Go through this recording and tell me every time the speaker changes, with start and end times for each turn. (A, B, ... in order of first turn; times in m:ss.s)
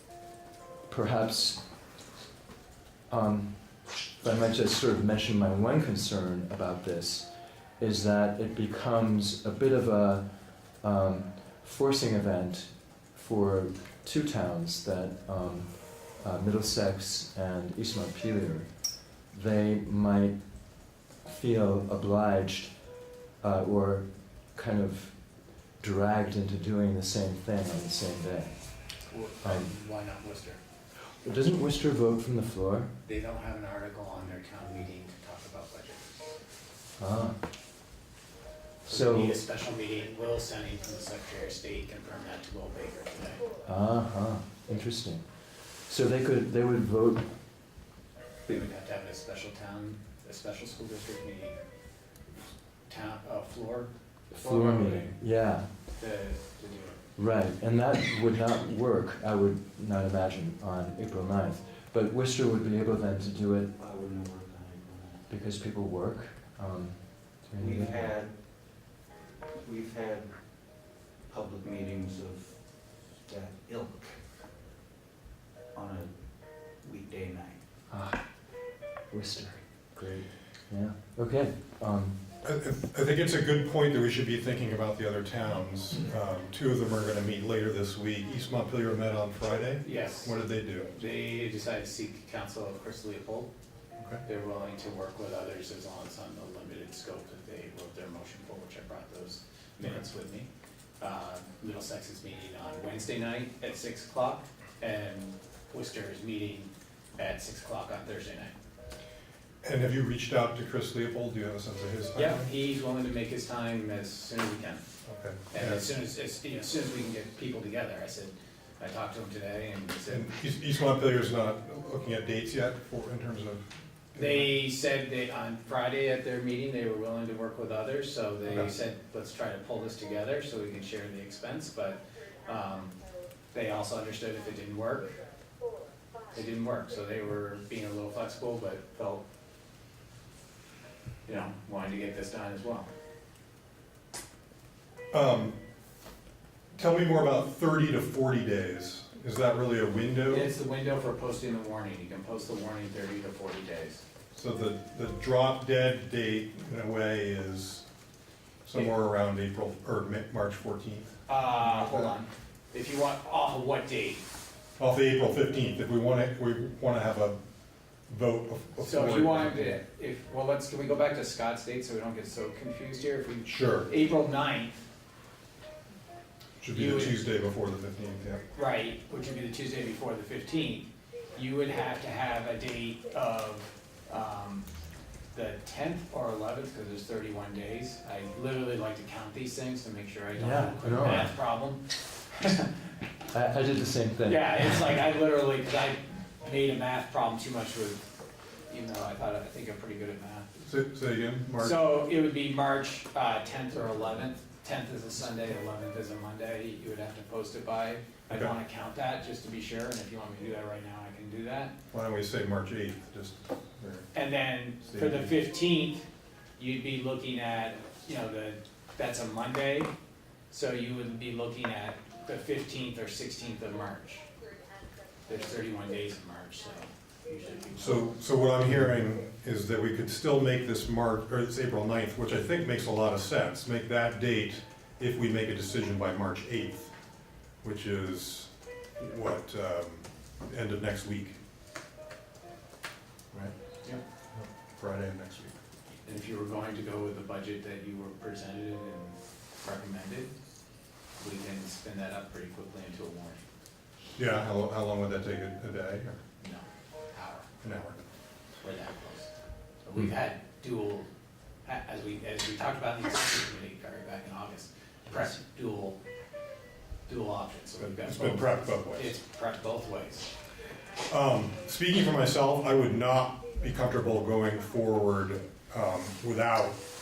0:00.9-0:01.6 A
0:03.1-0:07.3 A
0:07.8-0:28.9 A
0:29.1-0:30.6 B
0:29.4-0:29.7 A
0:31.2-0:32.9 A
0:33.0-0:36.3 B
0:37.0-0:37.4 A
0:38.8-0:39.4 A
0:38.8-0:43.4 B
0:43.6-0:47.3 A
0:48.4-0:51.6 B
0:52.9-0:55.2 B
0:54.3-0:55.8 A
0:55.9-0:57.0 B
0:57.2-1:03.7 A
1:03.8-1:05.2 C
1:05.3-1:08.0 A
1:07.6-1:08.4 C
1:09.6-1:10.7 C
1:11.3-1:12.6 C
1:13.2-1:14.2 C
1:15.7-1:17.6 C
1:19.1-1:22.2 A
1:22.4-1:30.9 D
1:29.8-1:33.5 B
1:34.0-1:34.2 D
1:34.2-1:40.5 B
1:41.0-1:48.5 B
1:49.6-1:52.5 D
1:52.1-1:54.8 B
1:55.0-1:55.8 D
1:55.5-2:00.3 B
2:00.1-2:04.6 D
2:04.2-2:13.0 B
2:13.5-2:15.2 B
2:16.3-2:19.2 B
2:21.2-2:22.9 B
2:25.1-2:25.6 D
2:26.7-2:30.5 D
2:30.3-2:34.0 B
2:34.3-2:37.8 D
2:38.6-2:42.1 D
2:41.3-2:44.2 B
2:44.8-2:47.4 D
2:48.1-2:49.8 D
2:48.8-2:54.9 B
2:53.4-2:53.9 D
2:56.6-2:58.4 D
2:56.7-2:57.2 B
2:58.5-3:04.7 B
3:05.3-3:11.8 B
3:10.3-3:11.3 A
3:12.4-3:12.7 B
3:13.3-3:15.0 A
3:14.2-3:18.1 B
3:18.7-3:20.5 B
3:20.6-3:21.8 D
3:21.6-3:31.7 B
3:31.9-3:34.1 D
3:34.1-3:39.9 B
3:34.8-3:35.3 D
3:40.5-3:44.2 B
3:45.2-3:48.1 B
3:47.8-3:56.9 D
3:57.6-4:01.4 D
4:04.3-4:05.5 D
4:06.0-4:10.3 B
4:11.2-4:13.4 B
4:14.2-4:16.2 D
4:16.4-4:17.5 B
4:17.6-4:18.0 D
4:18.6-4:19.3 B
4:19.8-4:21.1 B
4:21.6-4:26.0 B
4:27.0-4:30.3 B
4:27.8-4:29.1 D
4:31.1-4:36.8 D